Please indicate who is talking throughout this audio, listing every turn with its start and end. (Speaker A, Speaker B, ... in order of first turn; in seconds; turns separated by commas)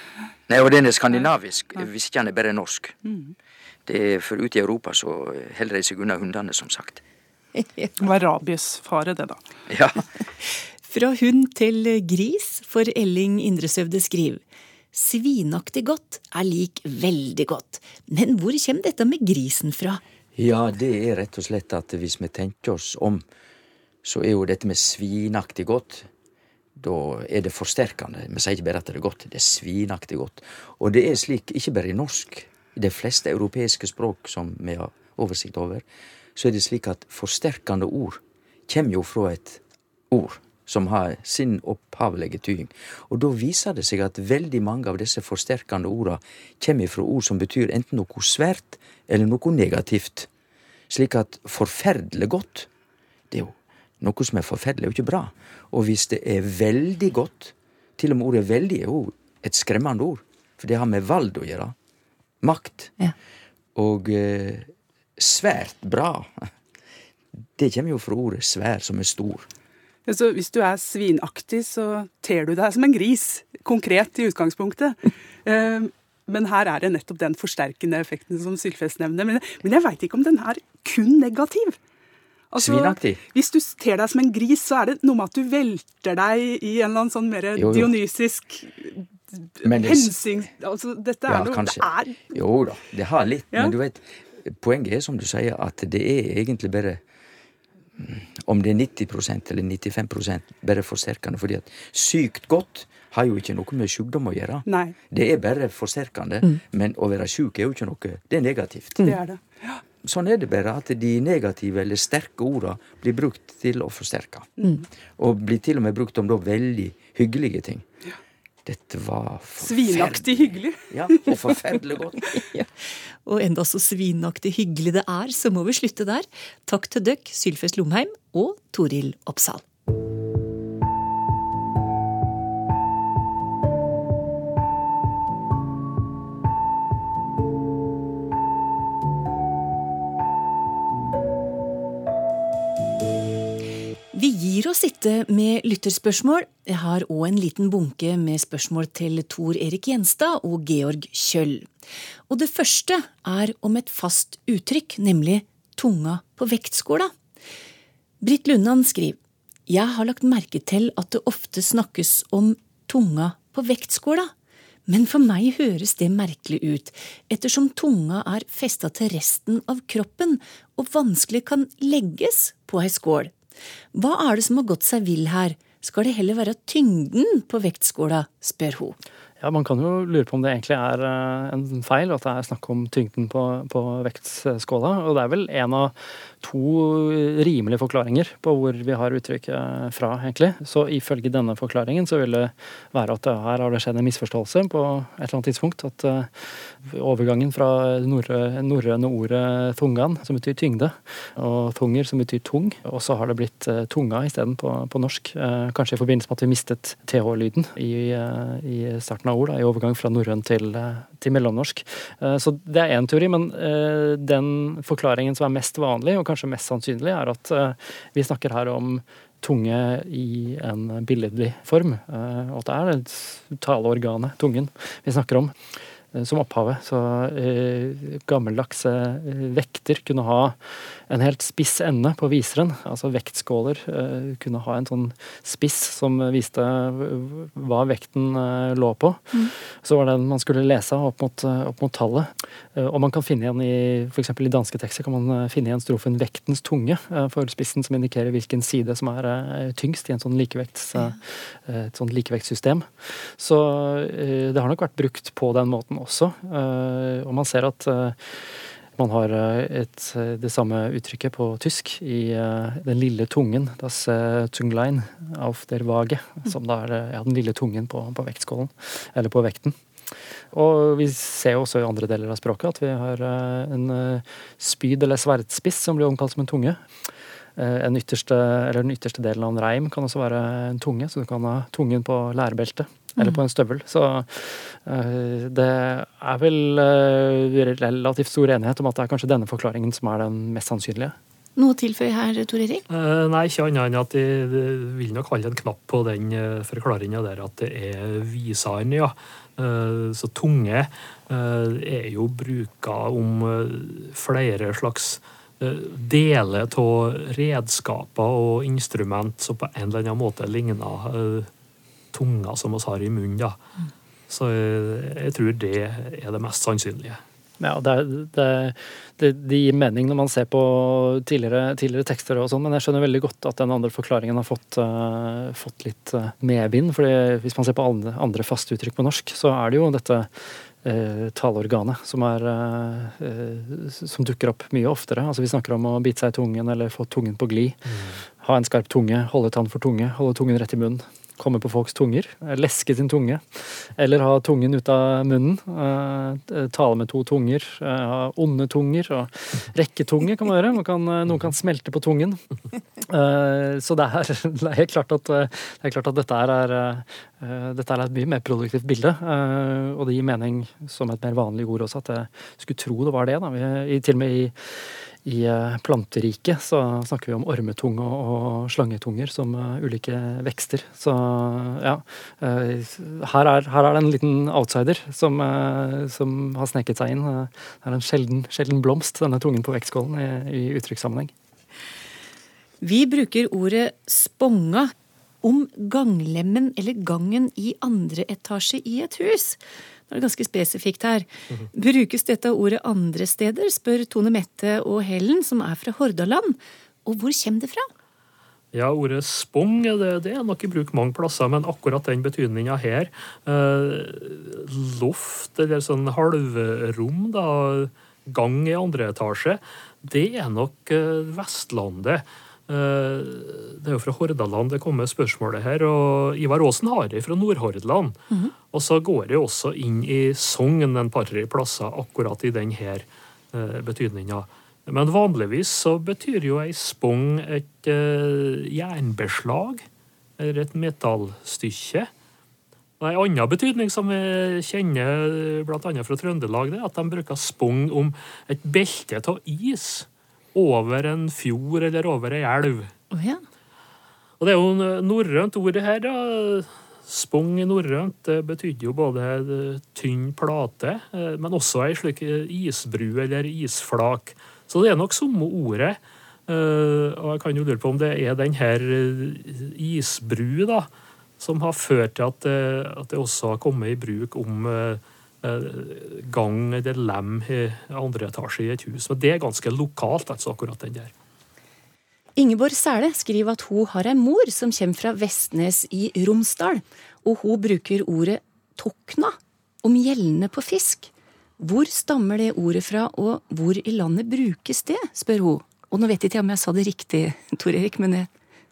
Speaker A: 0.5-3.0, Speaker B: 3.0-3.4, Speaker A: 3.9-7.0, Speaker B: 8.0-9.4, Speaker A: 9.7-10.0, Speaker C: 10.9-14.4, Speaker C: 14.9-20.0, Speaker A: 20.4-23.2, Speaker A: 24.0-26.1, Speaker A: 26.8-35.8, Speaker A: 36.4-39.6, Speaker A: 40.1-50.3, Speaker A: 50.9-52.7, Speaker A: 53.3-61.8, Speaker A: 62.4-63.0, Speaker A: 63.8-66.5, Speaker A: 67.6-69.5, Speaker B: 70.1-81.8, Speaker B: 82.5-92.3, Speaker A: 82.6-83.2, Speaker A: 87.6-87.9, Speaker A: 89.6-90.2, Speaker A: 91.3-97.0, Speaker A: 98.0-109.0, Speaker B: 104.7-105.0, Speaker B: 109.0-109.8, Speaker A: 110.0-114.5, Speaker A: 115.2-117.9, Speaker A: 118.7-122.3, Speaker B: 119.6-121.4, Speaker C: 122.4-122.7, Speaker C: 123.2-129.6, Speaker C: 144.1-151.7, Speaker C: 152.3-157.1, Speaker C: 158.2-164.3, Speaker C: 164.9-173.3, Speaker C: 173.9-179.0, Speaker D: 179.4-225.6, Speaker D: 226.1-269.8, Speaker D: 270.5-276.8, Speaker D: 277.6-291.1, Speaker C: 291.6-292.8, Speaker E: 292.9-311.5, Speaker E: 312.1-313.6, Speaker E: 314.3-317.2, Speaker D: 317.6-352.4, Speaker D: 353.0-364.6, Speaker D: 365.2-381.3, Speaker C: 382.8-384.9, Speaker C: 385.4-397.9, Speaker E: 398.7-418.2, Speaker E: 418.7-429.8, Speaker E: 430.4-432.1, Speaker E: 433.0-442.9, Speaker C: 443.1-443.4, Speaker E: 444.4-471.1, Speaker C: 472.4-488.3